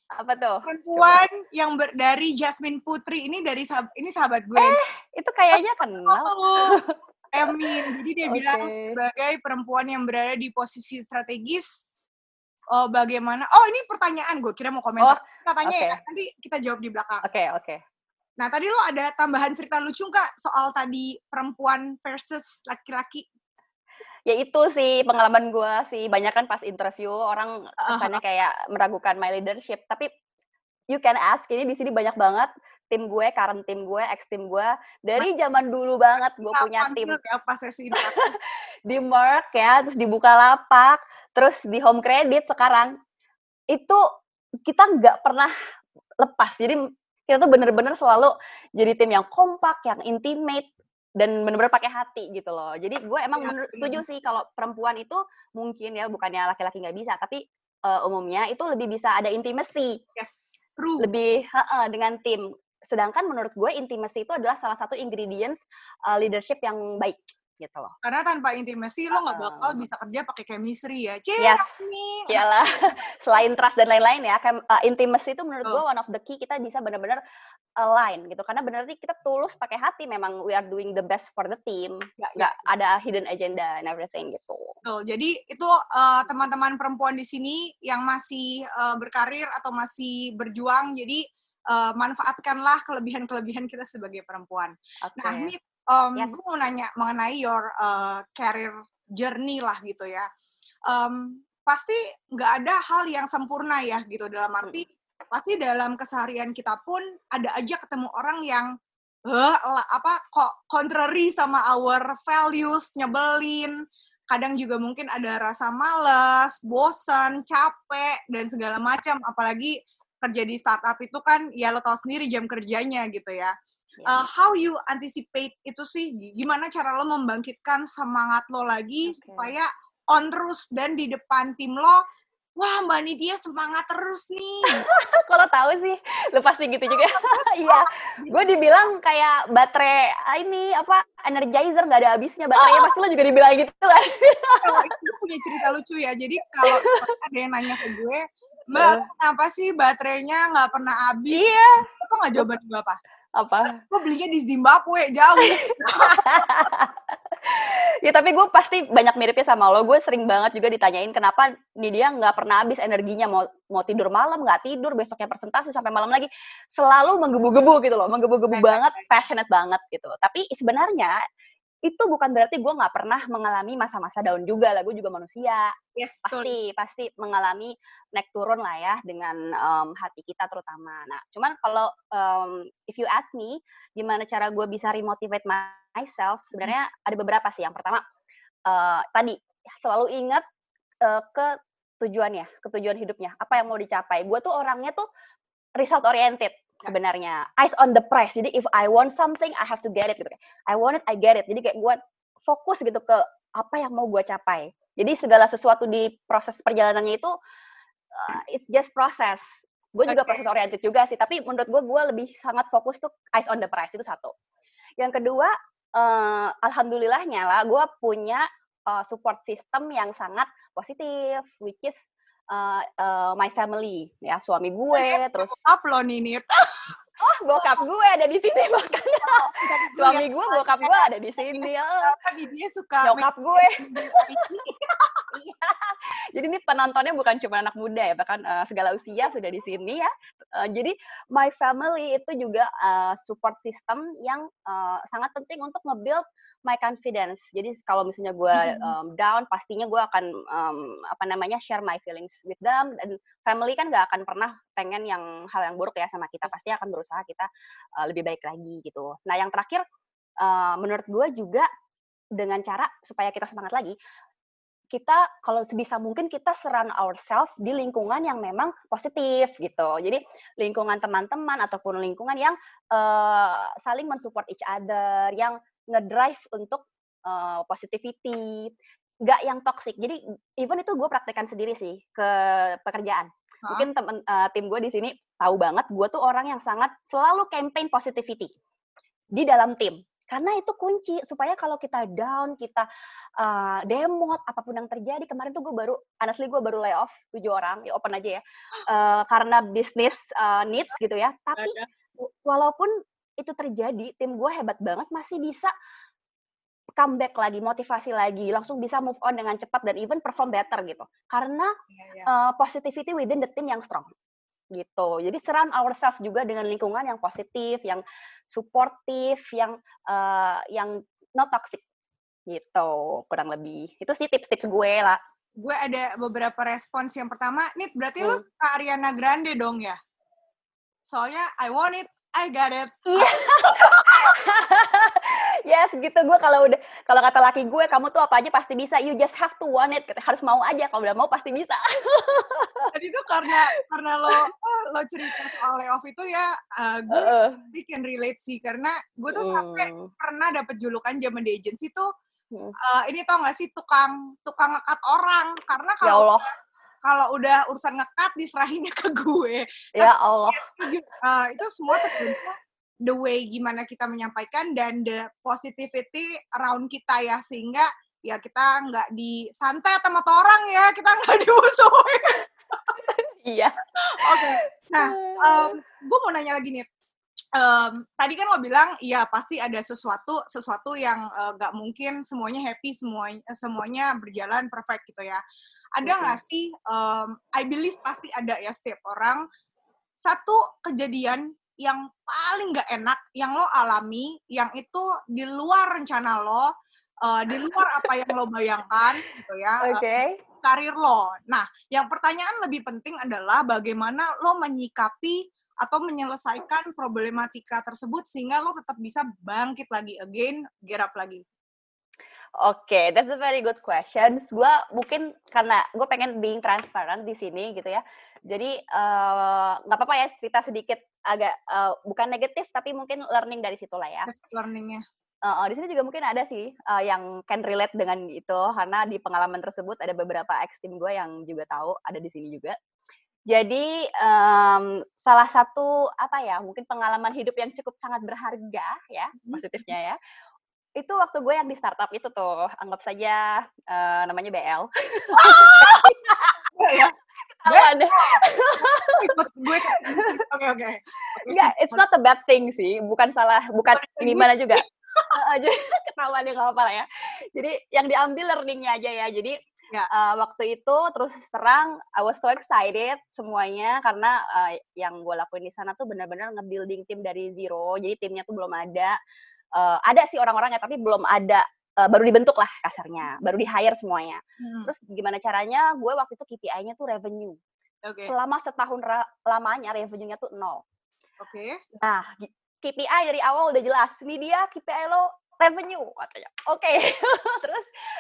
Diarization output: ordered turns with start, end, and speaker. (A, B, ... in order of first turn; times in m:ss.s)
0:00.2-0:01.2 A
0:00.6-0:04.8 B
0:04.6-0:07.0 A
0:05.5-0:06.8 B
0:07.3-0:11.8 B
0:07.5-0:09.0 A
0:12.7-0:17.3 B
0:15.0-0:16.0 A
0:17.2-0:17.8 A
0:18.4-0:23.3 B
0:24.3-0:30.1 A
0:27.8-0:28.2 B
0:30.9-0:37.2 A
0:36.5-0:38.3 B
0:38.0-0:43.0 A
0:43.7-0:44.0 A
0:44.6-0:45.5 A
0:46.2-0:50.7 A
0:51.2-1:00.0 A
0:53.4-0:54.0 B
1:00.2-1:01.1 B
1:01.0-1:07.9 A
1:08.0-1:12.4 B
1:09.1-1:09.8 A
1:11.4-1:17.2 A
1:17.8-1:24.7 A
1:22.2-1:22.5 B
1:24.8-1:40.3 B
1:35.0-1:35.5 A
1:40.9-1:48.7 B
1:49.3-1:53.8 B
1:54.3-2:03.5 B
2:04.0-2:04.3 A
2:04.1-2:12.0 B
2:09.1-2:09.5 A
2:12.6-2:14.9 B
2:14.7-2:25.0 A
2:16.9-2:18.5 B
2:22.6-2:23.0 B
2:24.6-2:33.0 B
2:26.6-2:27.1 A
2:28.7-2:29.1 A
2:31.3-2:31.9 A
2:33.4-2:33.8 A
2:33.7-2:36.7 B
2:35.4-2:51.2 A
2:48.5-2:49.1 B
2:51.8-2:55.7 A
2:56.0-2:56.5 B
2:56.3-3:08.0 A
3:08.7-3:10.4 A
3:11.0-3:15.0 A
3:15.8-3:27.3 A
3:28.1-3:29.4 A
3:29.9-3:34.3 A
3:30.1-3:30.4 B
3:35.0-3:45.6 A
3:44.9-3:46.7 B
3:47.2-3:52.1 A
3:47.5-3:47.9 B
3:49.2-3:55.4 B
3:53.0-3:54.5 A
3:55.3-4:17.5 A
4:08.5-4:09.0 B
4:18.0-4:19.8 A
4:20.4-4:21.7 A
4:22.4-4:24.0 A
4:24.9-4:38.7 A
4:39.2-4:48.5 A
4:49.3-4:52.9 A
4:53.4-5:05.7 A
5:01.6-5:01.9 B
5:07.0-5:11.7 A
5:11.9-5:12.3 B
5:12.3-5:14.1 A
5:14.7-5:21.8 A
5:22.5-5:25.2 A
5:25.6-5:30.0 B
5:31.1-5:34.4 B
5:33.2-5:42.9 A
5:42.9-5:52.1 B
5:47.1-5:47.6 A
5:49.3-5:50.1 A
5:52.8-5:56.4 B
5:56.0-5:56.5 A
5:57.0-6:13.0 B
6:00.0-6:00.7 A
6:02.0-6:02.4 A
6:13.1-6:15.8 A
6:14.0-6:16.9 B
6:17.6-6:25.4 B
6:26.0-6:29.4 B
6:26.0-6:26.4 A
6:30.2-6:36.7 B
6:37.2-6:40.0 B
6:39.8-6:40.4 A
6:40.6-6:51.4 B
6:52.6-7:04.3 A
7:04.3-7:05.0 B
7:05.4-7:12.8 A
7:13.5-7:20.2 A
7:21.0-7:26.6 A
7:25.3-7:26.1 B
7:26.8-7:27.1 B
7:27.6-7:29.3 A
7:27.7-7:28.5 B
7:29.2-7:32.0 B
7:29.8-7:30.4 A
7:31.5-7:39.6 A
7:34.0-7:35.4 B
7:40.1-7:49.2 A
7:49.7-7:57.6 A
7:54.6-7:54.9 B
7:58.0-7:58.3 B
7:58.3-8:00.8 A
8:01.4-8:01.8 B
8:02.0-8:07.9 A